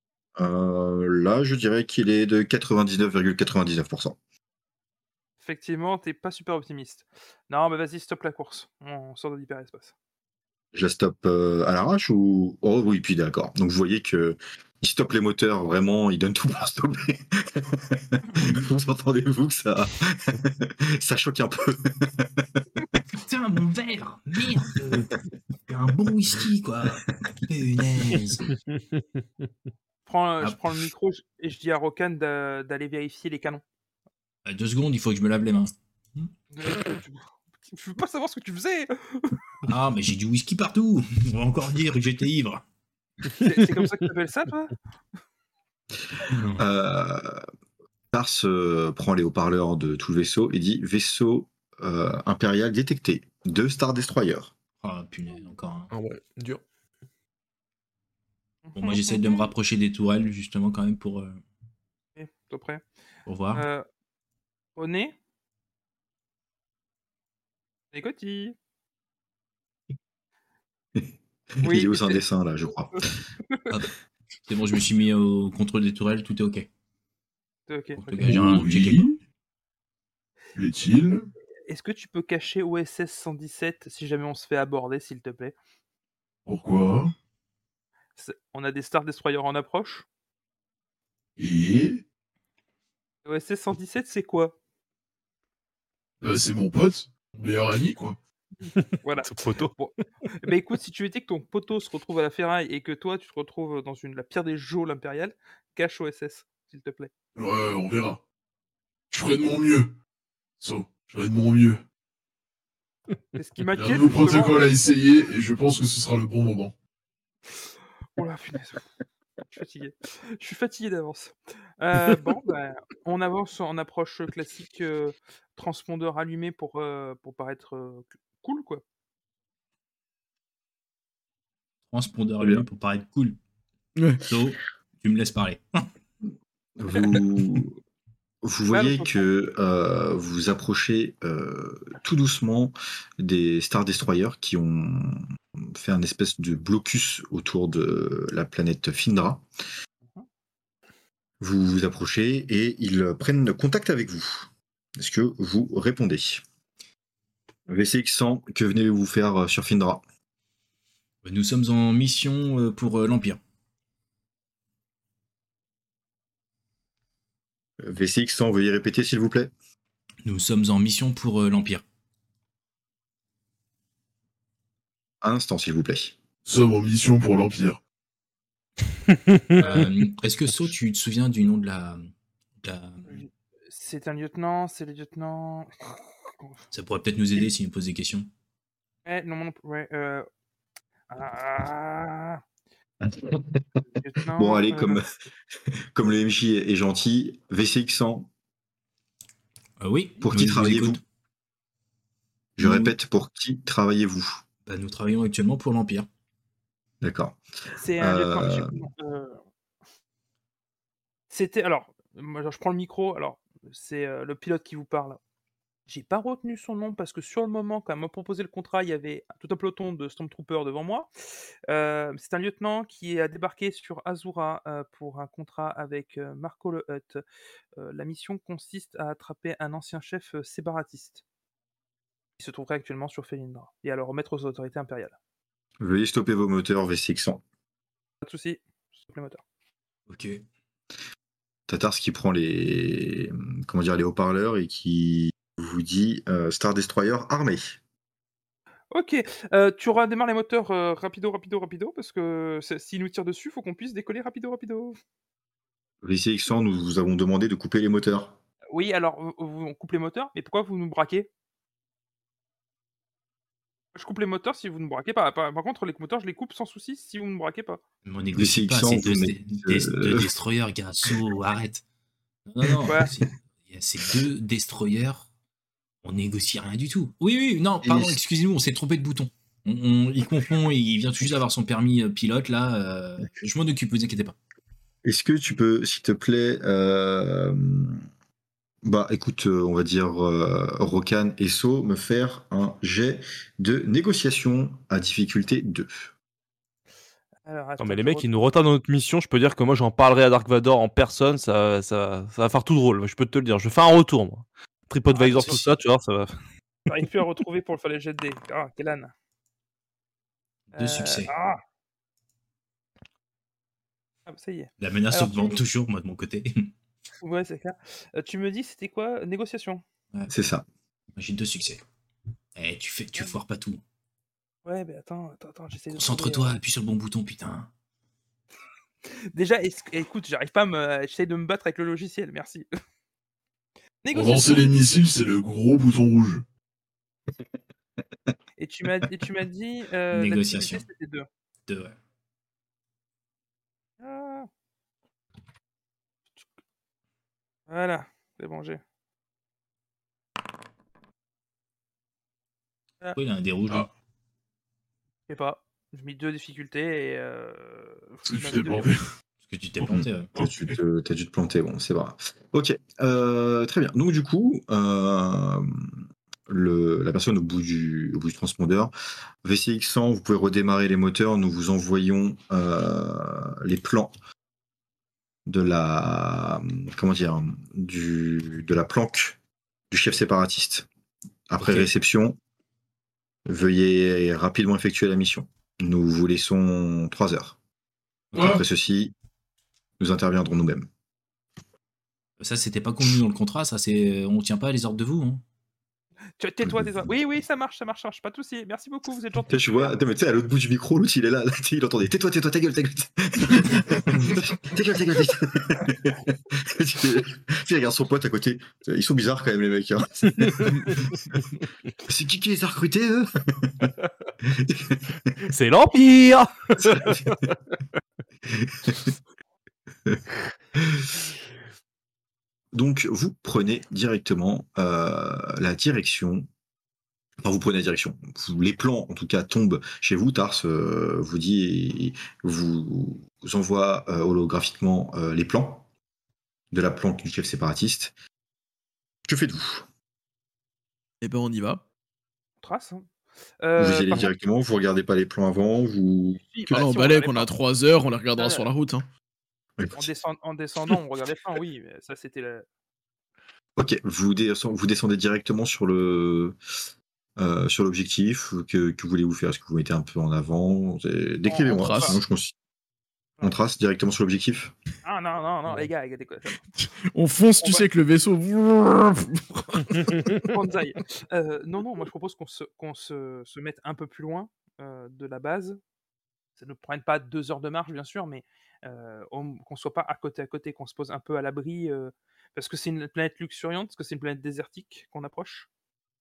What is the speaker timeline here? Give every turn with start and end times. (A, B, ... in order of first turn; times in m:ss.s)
0:00.4-0:04.2 A
0:05.4-0:09.9 B
0:10.7-0:22.5 A
0:23.1-0:28.5 C
0:30.1-0:33.6 B
0:30.4-0:30.9 C
0:34.4-0:36.3 C
0:36.5-0:39.4 B
0:39.7-0:42.6 C
0:43.4-0:44.8 B
0:46.3-0:46.6 C
0:46.6-0:47.4 A
0:48.1-0:54.5 A
0:54.8-0:55.9 C
0:55.9-0:56.6 D
0:58.7-0:59.5 B
0:58.8-1:01.4 C
1:02.2-1:02.8 B
1:03.3-1:03.7 C
1:03.5-1:03.8 B
1:04.8-1:05.2 B
1:07.9-1:08.6 B
1:11.0-1:13.1 A
1:11.6-1:12.2 B
1:14.5-1:16.7 C
1:17.7-1:18.6 B
1:18.0-1:19.1 C
1:18.2-1:19.2 E
1:20.6-1:21.3 E
1:21.7-1:25.5 B
1:26.5-1:27.1 E
1:28.2-1:30.0 B
1:31.4-1:32.0 E
1:33.2-1:34.6 B
1:36.2-1:38.2 E
1:38.7-1:39.7 D
1:39.0-1:47.1 B
1:47.4-1:48.2 E
1:49.1-1:49.9 E
1:50.6-1:51.8 E
1:53.4-1:54.7 B
1:53.8-1:56.7 E
1:58.2-1:58.9 B
1:59.5-2:08.8 B
2:11.9-2:13.4 C
2:14.0-2:14.2 F
2:14.2-2:15.6 C
2:16.8-2:17.8 A
2:18.4-2:29.4 A
2:18.7-2:19.2 B
2:31.4-2:36.4 A
2:37.7-2:40.0 A
2:41.2-2:43.4 C
2:47.8-2:49.5 A
2:50.2-2:51.8 C
2:55.2-2:56.2 A
2:56.5-2:57.8 E
2:59.1-2:59.6 D
2:59.6-3:03.2 C
3:03.0-3:06.6 B
3:06.7-3:08.3 C
3:09.1-3:10.3 B
3:11.1-3:12.4 B
3:13.0-3:13.7 A
3:14.0-3:15.0 B
3:14.4-3:15.1 A
3:15.7-3:18.3 A
3:19.8-3:21.0 C
3:20.2-3:21.0 A
3:22.6-3:24.4 A
3:22.6-3:23.0 C
3:24.7-3:26.1 C
3:27.0-3:27.4 A
3:27.8-3:29.4 B
3:28.0-3:28.8 A
3:31.3-3:35.2 B
3:35.9-3:41.1 B
3:41.7-3:47.2 B
3:47.8-3:51.2 B
3:52.4-3:55.2 B
3:55.8-3:57.4 A
3:58.2-3:59.4 B
4:00.1-4:00.4 C
4:01.7-4:07.8 A
4:08.9-4:15.0 B
4:16.0-4:18.4 A
4:18.7-4:21.3 B
4:24.0-4:27.8 B
4:28.0-4:31.8 C
4:28.4-4:30.3 A
4:32.5-4:35.3 C
4:32.8-4:33.2 B
4:36.0-4:44.4 C
4:37.8-4:38.2 A
4:45.0-4:48.0 A
4:48.8-4:56.1 A
4:57.4-4:58.3 B
4:57.8-5:06.4 D
5:05.1-5:05.6 B
5:05.4-5:05.7 C
5:06.9-5:09.1 B
5:10.7-5:11.3 C
5:10.7-5:11.6 B
5:14.3-5:15.6 B
5:14.8-5:16.7 C
5:17.2-5:19.8 B
5:20.3-5:20.7 A
5:21.2-5:21.8 C
5:22.6-5:23.8 C
5:24.6-5:26.6 B
5:25.9-5:27.7 C
5:29.3-5:32.7 B
5:34.0-5:34.7 B
5:34.1-5:36.4 E
5:38.6-5:41.3 B
5:40.1-5:40.8 C
5:41.7-5:42.0 C
5:44.0-5:44.5 B
5:47.7-5:48.8 B
5:53.2-5:53.9 C
5:55.3-5:58.9 B
5:58.3-5:59.0 E
5:59.4-6:00.3 C
5:59.9-6:05.9 A
6:06.5-6:08.9 A
6:09.4-6:14.1 A
6:15.5-6:19.4 A
6:19.9-6:20.9 A
6:21.5-6:22.4 A
6:21.6-6:21.9 C
6:23.5-6:27.6 A
6:28.3-6:28.6 C
6:28.3-6:29.1 A
6:28.4-6:28.6 E
6:30.0-6:30.9 A
6:32.4-6:35.4 C
6:36.4-6:39.9 B
6:36.6-6:37.1 A
6:39.5-6:51.4 A
6:52.1-6:53.9 A
6:54.4-6:55.5 A
6:55.5-6:57.5 D
6:56.8-6:57.5 A
6:58.5-6:59.1 A
7:00.8-7:01.1 A
7:02.7-7:06.5 A
7:07.4-7:15.8 A
7:16.7-7:18.1 A
7:19.3-7:19.9 A
7:21.2-7:21.8 F
7:22.6-7:23.0 B
7:23.6-7:24.3 B
7:23.8-7:26.5 A
7:26.5-7:27.5 B
7:26.7-7:29.1 F
7:28.4-7:28.7 B
7:29.8-7:30.1 A
7:30.0-7:32.7 B
7:33.8-7:36.6 A
7:37.4-7:42.5 A
7:41.5-7:42.2 B
7:41.7-7:42.2 F
7:43.4-7:44.7 A
7:45.0-7:46.6 B
7:46.8-7:50.5 F
7:47.6-7:47.9 B
7:50.4-7:55.8 B
7:56.6-8:05.7 B